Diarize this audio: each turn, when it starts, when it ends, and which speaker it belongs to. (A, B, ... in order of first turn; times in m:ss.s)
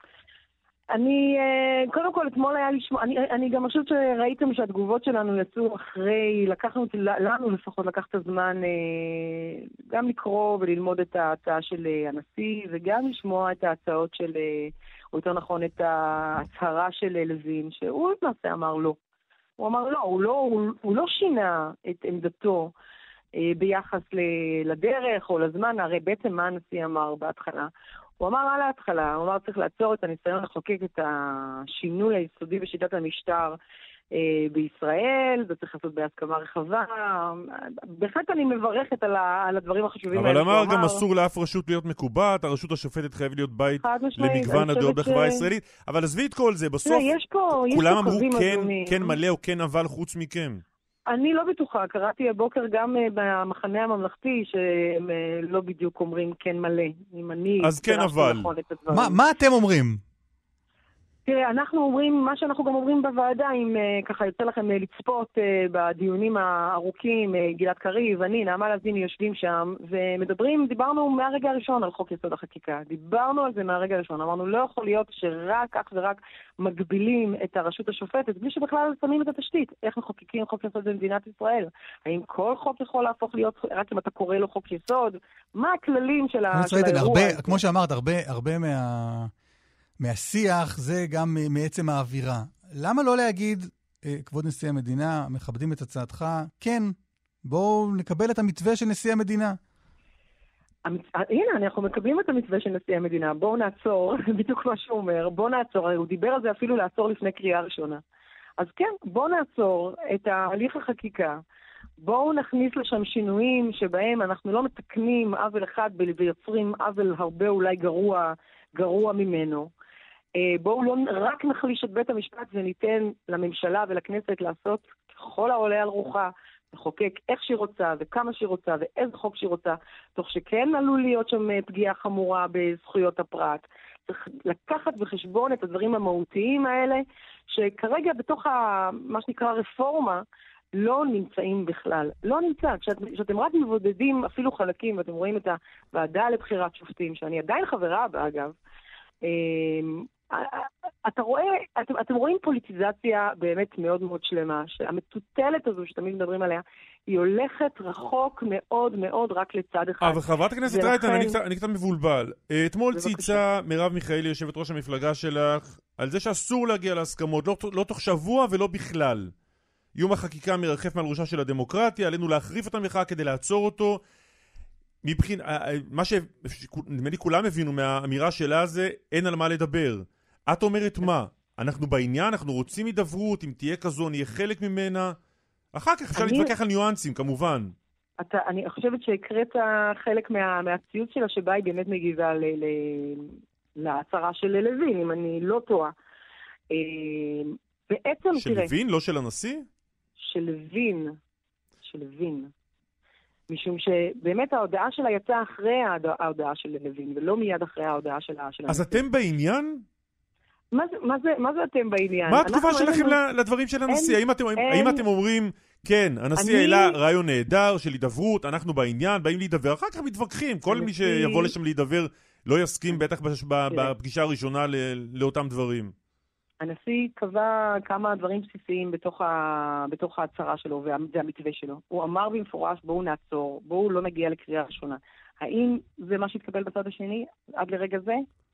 0:00.9-0:19.0 A
0:19.6-0:22.7 A
0:23.4-0:27.7 A
0:28.2-0:33.6 A
0:34.1-0:41.0 A
0:40.1-0:47.1 B
0:43.8-0:45.5 A
0:46.8-0:49.2 A
0:47.6-0:50.6 B
0:51.1-0:59.2 A
0:57.6-0:58.5 B
0:58.9-1:00.0 C
1:01.3-1:27.6 A
1:26.5-1:29.3 C
1:30.0-1:39.6 C
1:40.8-1:48.0 A
1:48.6-1:51.4 A
1:52.0-1:59.7 A
2:00.4-2:20.2 A
2:20.7-2:28.5 A
2:29.2-2:41.4 A
2:40.0-2:49.3 B
2:42.9-2:43.4 A
2:50.0-2:54.0 B
2:55.0-3:05.2 B
3:05.7-3:07.8 B
3:06.2-3:06.5 A
3:08.2-3:15.9 A
3:16.7-3:18.7 A
3:18.3-3:19.7 B
3:20.2-3:21.2 A
3:21.8-3:22.5 A
3:23.5-3:29.0 A
3:28.7-3:29.8 B
3:30.7-3:33.2 A
3:32.3-3:45.9 B
3:33.9-3:35.0 A
3:36.4-3:36.9 A
3:40.7-3:41.5 A
3:46.6-3:58.2 A